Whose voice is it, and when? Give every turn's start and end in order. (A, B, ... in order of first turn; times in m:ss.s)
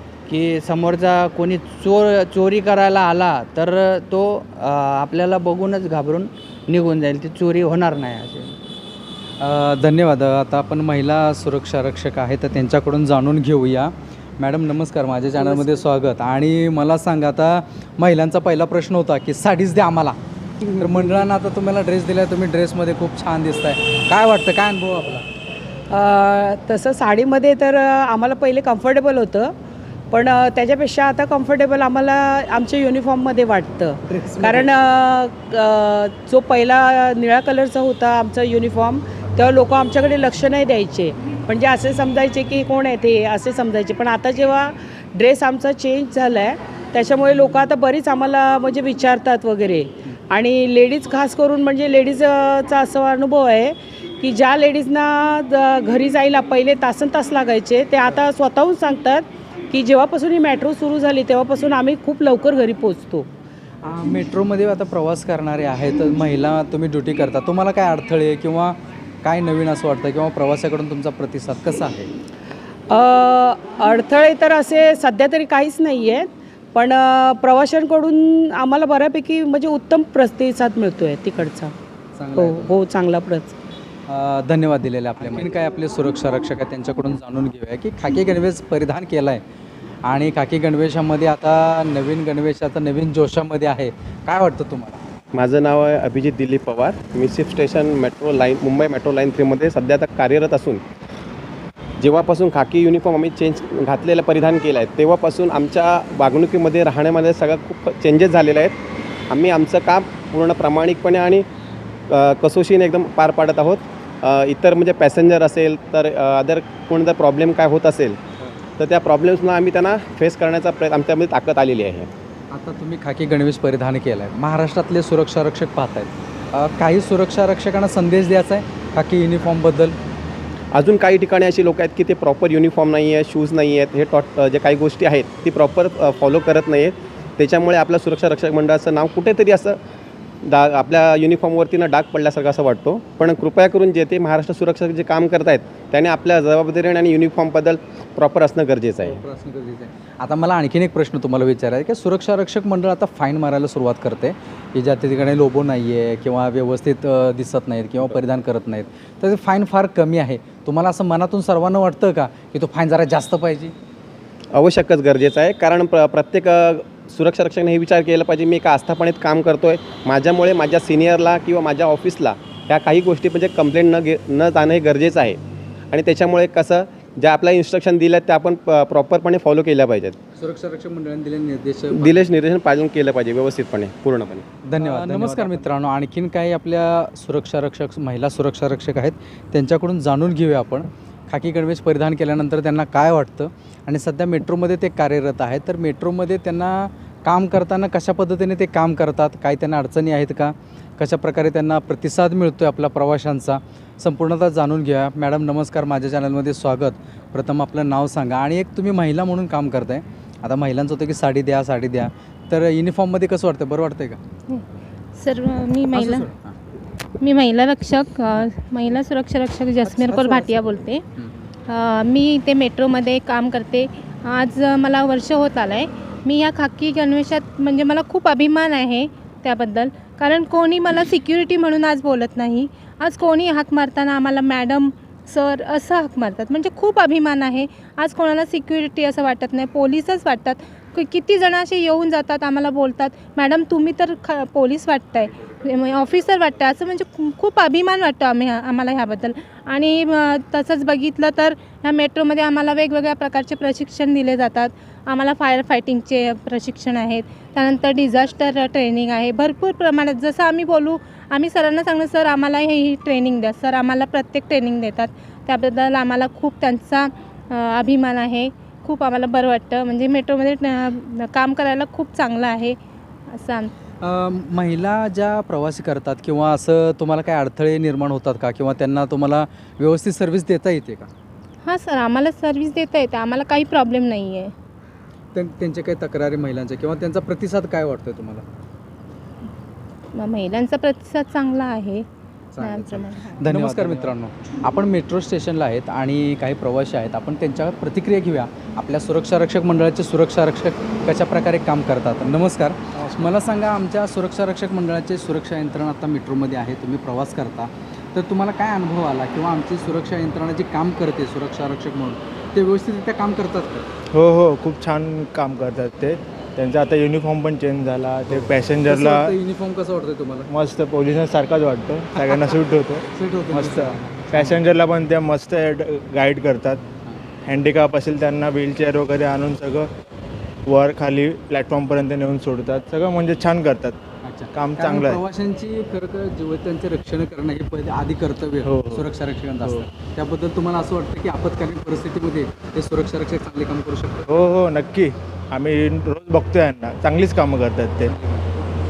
0:00.3-0:08.6 A
0:09.4-0:20.2 B
0:20.8-0:25.2 B
0:25.9-0:29.6 C
0:30.1-1:03.3 C
0:34.1-0:34.7 B
1:03.8-1:12.1 B
1:12.9-1:21.7 C
1:22.2-1:22.7 B
1:22.4-1:23.5 C
1:24.1-1:29.4 B
1:30.0-1:35.0 B
1:35.3-1:40.8 D
1:42.0-1:48.8 D
1:49.3-1:51.4 D
1:52.1-1:58.2 D
1:58.8-2:02.1 D
2:02.5-2:10.0 B
2:10.7-2:19.8 D
2:20.4-2:29.2 D
2:29.0-2:43.7 B
2:44.6-2:55.4 D
2:55.9-3:00.2 D
3:00.4-3:02.2 B
3:01.9-3:04.4 D
3:04.7-3:34.2 B
3:35.2-3:36.3 E
3:35.9-3:36.6 B
3:37.2-3:41.0 E
3:39.8-3:40.6 B
3:41.7-4:32.8 E
4:33.3-4:33.7 E
4:34.0-4:41.1 B
4:41.6-4:44.5 E
4:45.4-4:48.4 B
4:50.2-4:52.1 E
4:52.6-5:13.9 B
4:52.6-4:54.0 E
5:14.1-5:19.4 F
5:18.3-5:20.5 B
5:20.5-5:26.8 F
5:23.2-5:24.6 B
5:27.4-5:29.9 F
5:30.7-5:34.0 F
5:34.2-5:44.3 B
5:34.5-5:35.2 F
5:38.6-5:39.0 F
5:44.3-5:48.1 F
5:48.1-5:48.5 B